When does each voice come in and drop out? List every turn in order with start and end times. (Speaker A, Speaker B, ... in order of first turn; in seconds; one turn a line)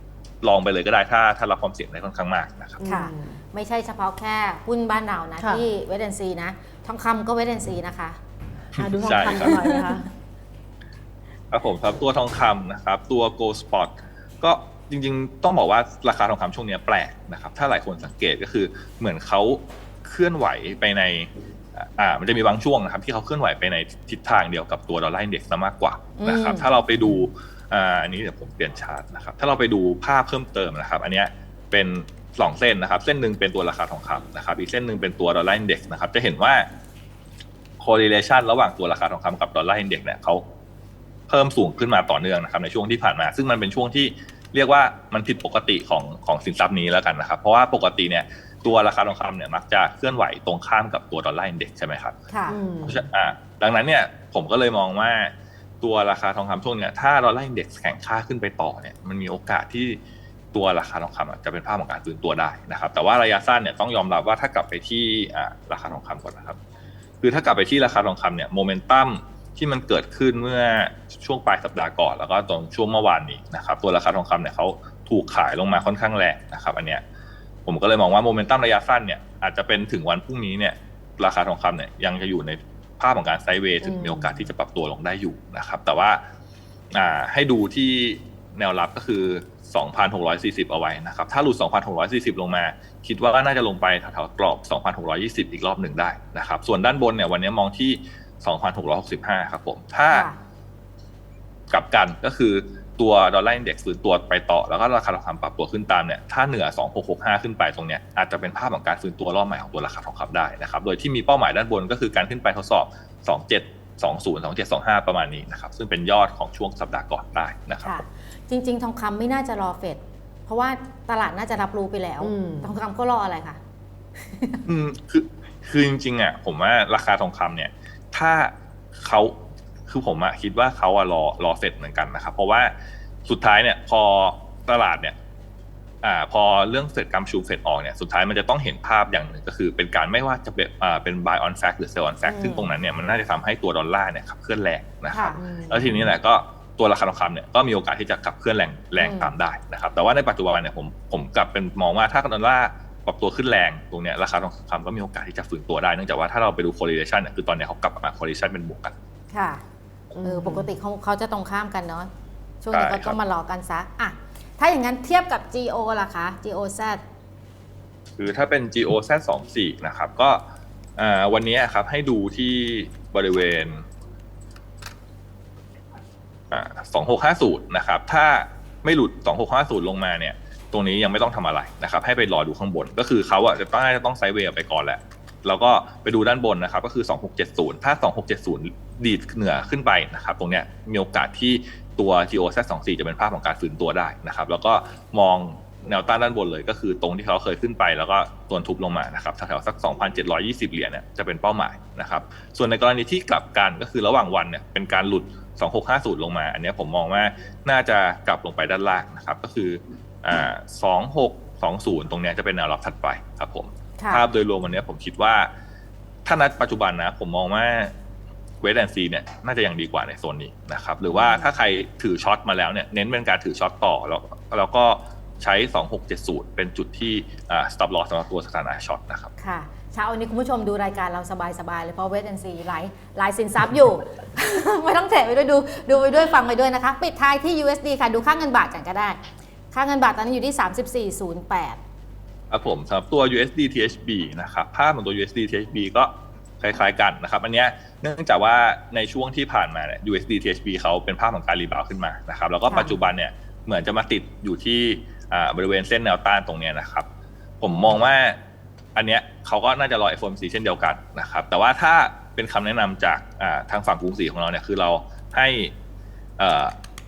Speaker A: 0.4-2.8
Speaker B: 2.8-3.4
Speaker C: 2.8-8.2
Speaker B: 5.4-5.7
Speaker A: 8.7-9.5
Speaker B: 8.8-10.1
Speaker C: 9.4-10.0
Speaker A: 11.5-36.7
Speaker C: 26.2-26.7
Speaker A: 37.8-40.4
Speaker A: 41.3-52.2
Speaker C: 52.3-52.6
Speaker B: 52.5-53.0
Speaker A: 52.8-60.0
Speaker A: 60.5-66.6
Speaker A: 67.2-77.0
Speaker A: 77.7-86.2
Speaker B: 83.8-84.4
Speaker A: 86.9-100.3
Speaker C: 100.1-100.4
Speaker A: 101.7-118.0
Speaker C: 117.8-123.6
Speaker B: 122.2-122.7
Speaker C: 124.2-124.6
Speaker A: 124.7-129.3
Speaker A: 129.9-132.7
Speaker A: 133.2-135.1
Speaker A: 136.0-158.9
Speaker B: 142.2-142.7
Speaker C: 145.1-145.4
Speaker B: 145.4-146.1
Speaker C: 149.0-149.3
Speaker C: 159.3-159.6
Speaker B: 160.1-160.7
Speaker C: 160.2-162.1
Speaker C: 162.6-167.0
Speaker A: 162.7-163.2
Speaker A: 168.2-170.4
Speaker A: 171.0-173.8
Speaker A: 176.5-215.5
Speaker C: 214.0-214.2
Speaker A: 216.2-217.9
Speaker A: 218.6-229.3
Speaker C: 221.1-221.4
Speaker C: 229.4-239.2
Speaker C: 239.7-241.8
Speaker A: 242.5-257.1
Speaker C: 252.7-252.9
Speaker A: 257.6-258.4
Speaker A: 258.9-265.7
Speaker A: 266.4-266.7